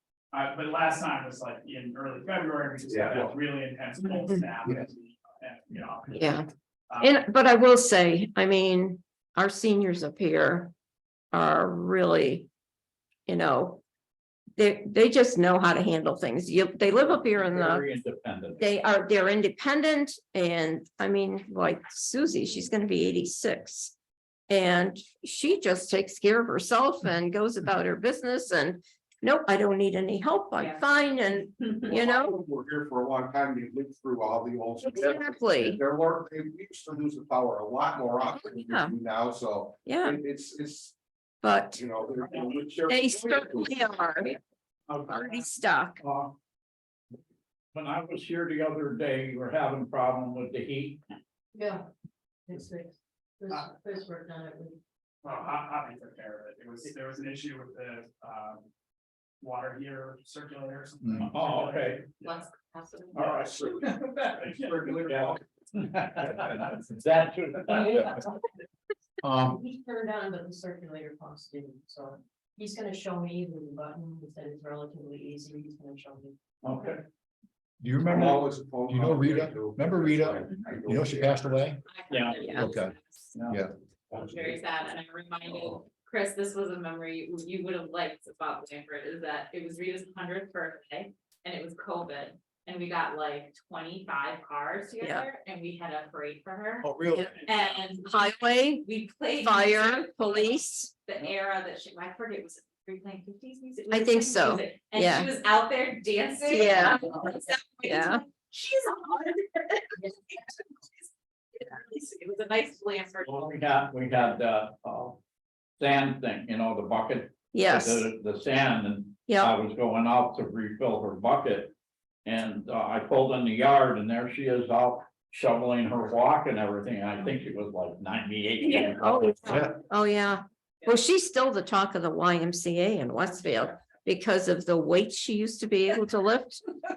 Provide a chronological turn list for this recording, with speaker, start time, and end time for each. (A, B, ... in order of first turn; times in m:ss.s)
0:00.3-0:07.3 A
0:02.9-0:03.3 B
0:06.1-0:06.5 C
0:07.0-0:10.7 C
0:11.3-0:12.5 C
0:13.3-0:13.8 C
0:14.6-0:17.8 C
0:17.0-0:18.6 D
0:18.6-0:24.0 C
0:24.5-0:32.4 C
0:30.6-0:32.0 E
0:31.9-0:41.0 B
0:34.8-0:35.8 C
0:38.4-0:39.0 C
0:39.8-0:40.2 C
0:41.4-0:41.8 C
0:41.8-0:43.7 B
0:42.2-0:42.5 A
0:42.9-0:44.3 C
0:44.9-0:45.5 A
0:45.1-0:46.0 C
0:46.0-0:46.4 D
0:47.7-0:51.0 D
0:51.5-0:51.8 F
0:52.5-0:54.8 F
0:55.2-0:58.6 A
0:59.4-1:02.6 A
1:01.0-1:01.3 G
1:01.3-1:02.0 D
1:02.2-1:03.3 E
1:03.1-1:05.2 A
1:03.5-1:03.8 B
1:04.3-1:05.4 B
1:05.1-1:08.2 D
1:09.2-1:09.6 G
1:09.5-1:16.4 F
1:16.6-1:17.0 D
1:17.8-1:21.8 G
1:18.0-1:21.6 B
1:21.9-1:23.3 E
1:22.1-1:22.6 D
1:22.5-1:22.9 G
1:23.3-1:23.6 D
1:24.1-1:24.6 B
1:24.2-1:36.9 E
1:36.8-1:37.3 G
1:37.2-1:38.0 A
1:37.4-1:53.6 E
1:38.1-1:38.9 C
1:39.4-1:40.9 C
1:43.9-1:45.3 C
1:46.5-1:48.2 C
1:53.3-1:55.2 D
1:55.8-2:01.7 D
1:57.5-1:58.1 C
1:59.3-1:59.5 C
2:02.2-2:09.6 D
2:08.6-2:09.2 E
2:09.0-2:16.7 C